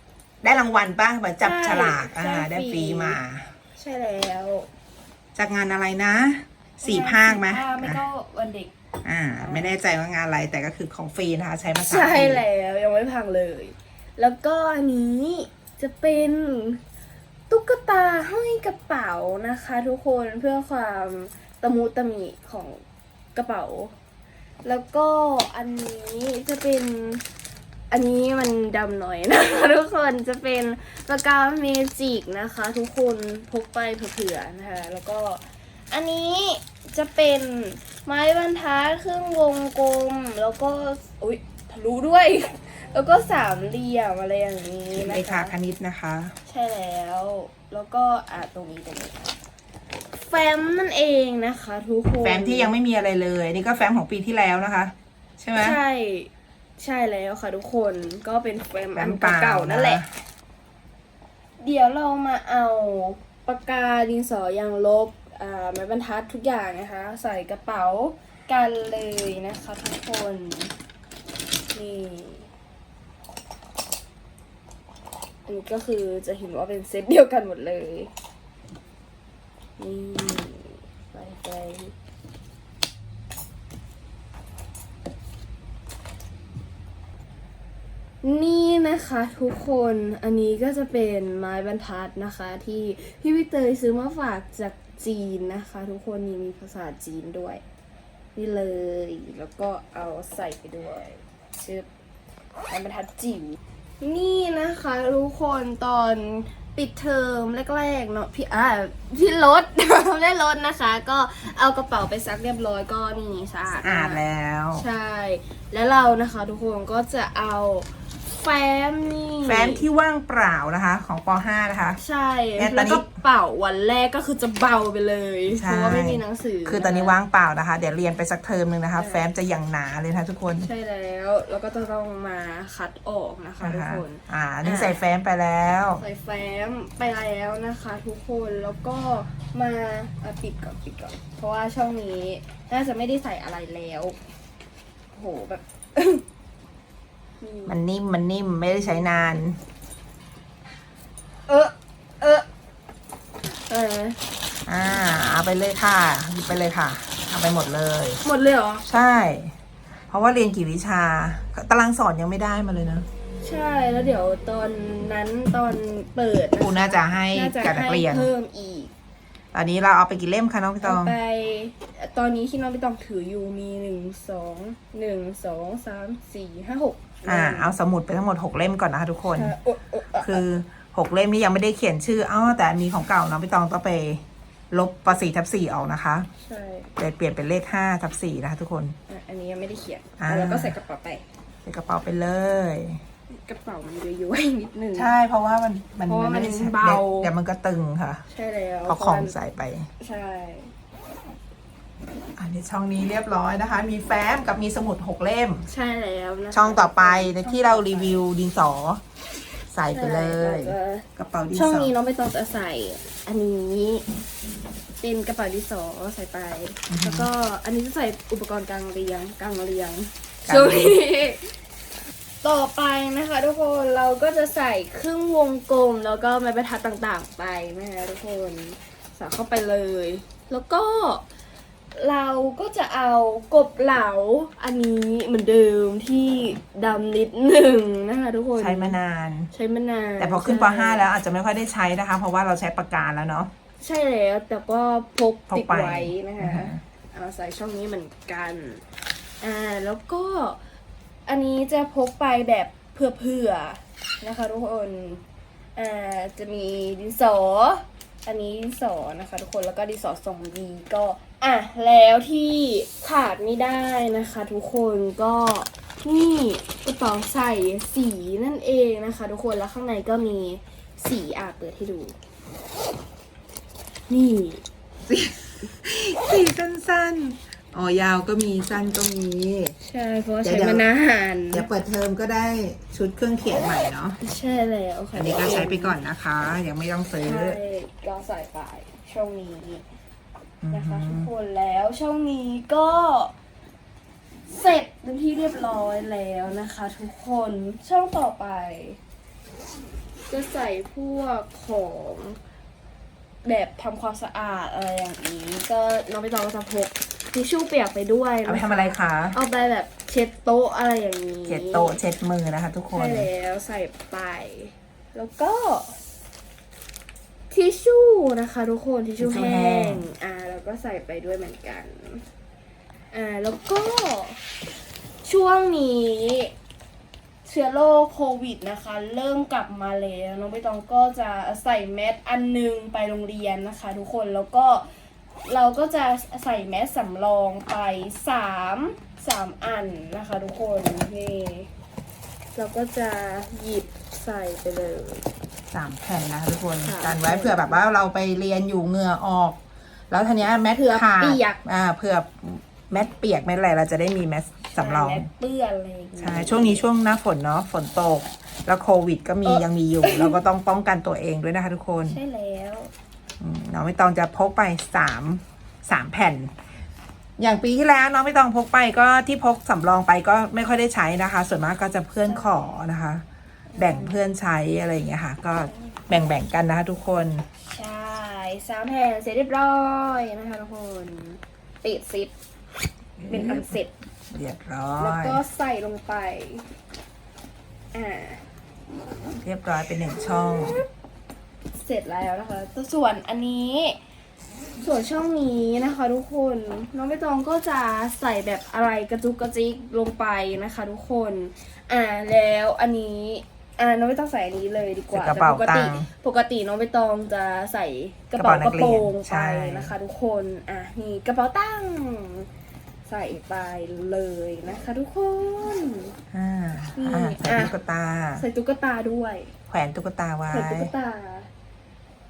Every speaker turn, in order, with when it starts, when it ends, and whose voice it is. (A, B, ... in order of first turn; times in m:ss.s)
0:00.4-0:03.5 A
0:01.4-0:03.2 B
0:03.8-0:04.7 B
0:05.3-0:08.0 A
0:06.8-0:08.7 B
0:09.0-0:12.4 A
0:09.3-0:09.8 B
0:11.8-0:16.8 B
0:17.5-0:22.8 B
0:23.3-0:23.9 B
0:24.6-0:27.2 B
0:27.9-0:45.5 B
0:45.0-0:46.3 A
0:46.4-0:49.3 B
0:50.1-0:52.7 B
0:52.2-0:55.8 A
0:55.6-1:00.0 B
0:58.9-1:00.1 A
1:01.6-1:10.7 B
1:11.7-1:12.5 B
1:15.4-1:18.1 B
1:19.8-1:21.9 B
1:28.2-1:37.6 B
1:38.3-1:41.9 B
1:42.7-1:54.2 B
1:53.8-1:54.8 A
1:54.7-1:59.8 B
1:59.4-2:02.0 A
2:02.0-2:07.2 B
2:02.6-2:03.0 A
2:05.5-2:10.7 A
2:09.0-2:09.2 B
2:10.6-2:15.0 B
2:13.6-2:16.0 A
2:16.0-2:24.2 B
2:25.1-2:26.2 B
2:27.4-2:27.8 B
2:27.7-2:29.6 A
2:31.5-2:32.5 B
2:33.7-2:34.2 B
2:34.7-2:38.2 A
2:38.2-2:38.8 B
2:38.8-2:39.5 A
2:40.1-2:43.1 A
2:43.4-2:48.9 B
2:46.6-2:48.3 A
2:49.5-2:51.1 A
2:50.8-2:57.7 B
2:57.2-2:59.5 A
2:59.3-3:00.4 B
3:00.2-3:06.3 A
3:06.4-3:06.9 B
3:07.0-3:09.0 A
3:09.1-3:11.2 B
3:10.2-3:10.8 A
3:11.6-3:13.0 A
3:13.4-3:15.1 B
3:14.9-3:18.2 A
3:16.0-3:17.3 B
3:18.3-3:19.4 B
3:18.9-3:19.9 A
3:20.0-3:20.7 B
3:22.4-3:25.7 A
3:25.7-3:28.2 B
3:26.5-3:29.0 A
3:29.7-3:31.9 A
3:29.9-3:34.0 B
3:35.0-3:41.5 B
3:36.9-3:37.3 A
3:40.4-3:41.0 A
3:42.4-3:51.2 B
3:51.9-3:59.0 B
3:58.6-3:59.5 A
3:59.5-4:01.0 B
4:00.2-4:03.5 A
4:03.8-4:08.8 B
4:05.5-4:06.8 A
4:09.4-4:10.6 B
4:11.3-4:15.2 B
4:15.8-4:32.1 B
4:34.1-4:34.6 B
4:35.1-4:39.7 A
4:39.8-4:41.7 B
4:40.4-4:40.8 A
4:41.5-4:44.2 A
4:44.2-4:46.0 B
4:45.2-4:47.6 A
4:47.2-4:49.8 B
4:50.6-4:51.3 A
4:50.7-4:53.3 B
4:54.5-4:59.0 B
5:00.3-5:02.4 B
5:03.4-5:12.0 B
5:08.4-5:09.4 A
5:11.5-5:13.3 A
5:12.9-5:16.0 B
5:17.5-5:22.2 B
5:19.2-5:20.0 A
5:23.1-5:24.4 B
5:25.2-5:26.5 B
5:27.4-5:34.9 B
5:35.4-5:41.7 B
5:42.6-5:45.2 B
5:45.7-5:55.3 A
5:46.8-5:47.8 B
5:50.7-5:51.6 B
5:54.7-5:56.9 B
5:56.2-6:02.2 A
5:59.4-6:00.4 B
6:02.1-6:02.9 B
6:03.4-6:06.5 A
6:07.4-6:13.2 A
6:12.2-6:12.7 B
6:13.7-6:14.2 B
6:13.8-6:17.4 A
6:17.6-6:22.3 B
6:23.2-6:23.8 A
6:23.3-6:23.9 B
6:24.3-6:25.4 A
6:25.0-6:26.7 B
6:27.9-6:28.4 B
6:29.4-6:30.8 A
6:30.2-6:30.8 B
6:31.8-6:34.0 B
6:34.8-6:52.5 B
6:45.1-6:46.1 A
6:48.4-6:49.9 A
6:53.1-6:56.1 B
6:56.3-6:58.4 A
6:56.9-6:57.7 B
6:58.4-6:59.5 B
6:59.7-7:00.9 A
7:00.5-7:01.5 B